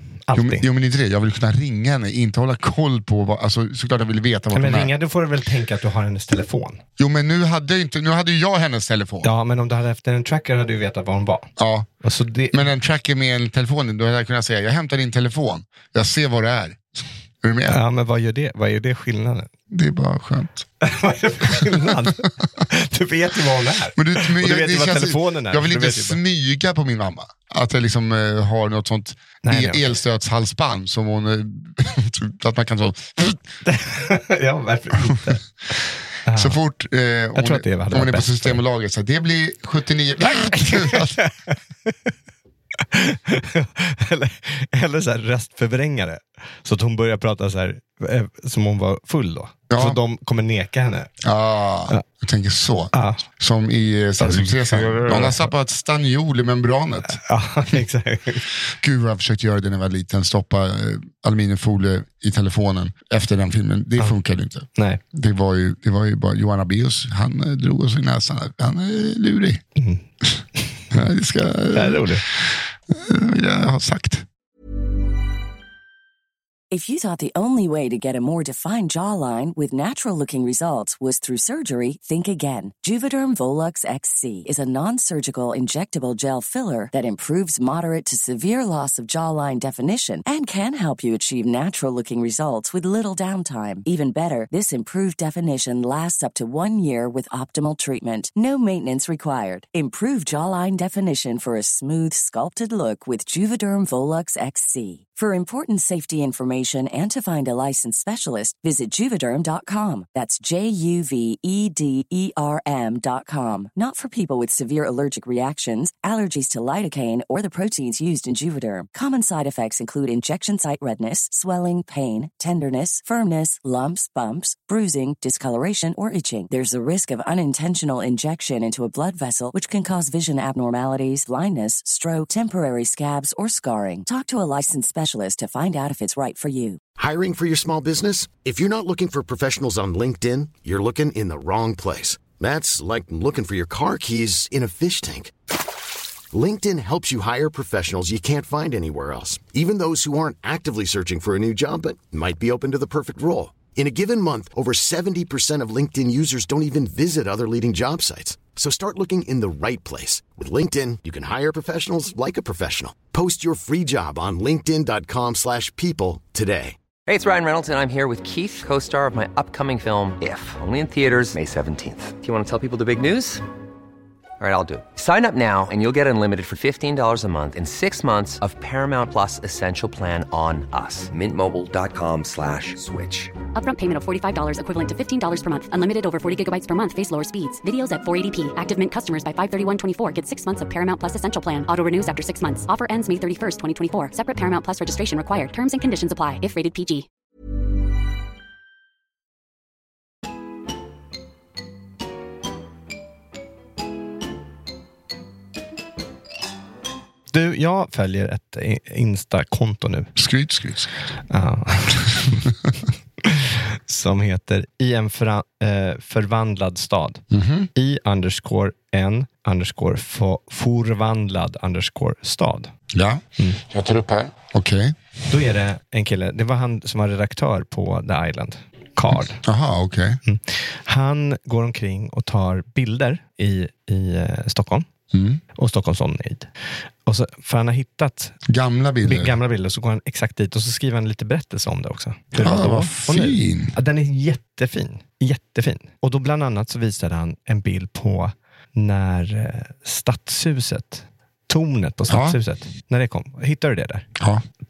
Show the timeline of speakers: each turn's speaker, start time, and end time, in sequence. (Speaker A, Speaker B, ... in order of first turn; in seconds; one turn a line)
Speaker A: 0.3-0.7
Speaker B: 0.3-4.9
Speaker A: 4.5-6.8
Speaker B: 7.0-9.3
Speaker A: 9.2-12.7
Speaker B: 11.6-11.9
Speaker B: 12.5-17.8
Speaker A: 17.7-19.5
Speaker B: 19.7-20.7
Speaker A: 20.8-26.2
Speaker B: 21.5-22.5
Speaker B: 23.9-33.4
Speaker A: 29.4-29.9
Speaker A: 33.6-35.5
Speaker A: 36.2-36.6
Speaker B: 36.3-41.2
Speaker A: 37.3-38.6
Speaker A: 40.6-42.1
Speaker A: 42.8-51.1
Speaker B: 49.7-50.0
Speaker B: 51.2-57.2
Speaker A: 52.9-53.2
Speaker A: 54.2-55.5
Speaker A: 57.2-58.5
Speaker B: 58.6-69.6
Speaker A: 69.8-70.0
Speaker A: 70.6-70.8
Speaker B: 70.9-74.2
Speaker A: 71.7-72.2
Speaker C: 76.7-136.8
Speaker D: 137.0-145.3
Speaker D: 146.3-166.8
Speaker E: 167.1-173.4
Speaker E: 174.4-183.3
Speaker F: 183.5-197.1
Speaker A: 207.3-210.2
Speaker B: 210.2-211.0
Speaker A: 211.3-212.5
Speaker A: 213.2-217.2
Speaker B: 217.3-217.7
Speaker A: 217.7-222.7
Speaker B: 222.9-225.0
Speaker A: 225.3-229.4
Speaker B: 229.1-230.2
Speaker A: 230.2-234.8
Speaker B: 235.1-235.4
Speaker A: 235.5-236.5
Speaker A: 237.1-238.4
Speaker B: 238.5-239.3
Speaker A: 239.0-254.1
Speaker B: 242.3-243.7
Speaker B: 252.1-252.4
Speaker B: 254.2-254.4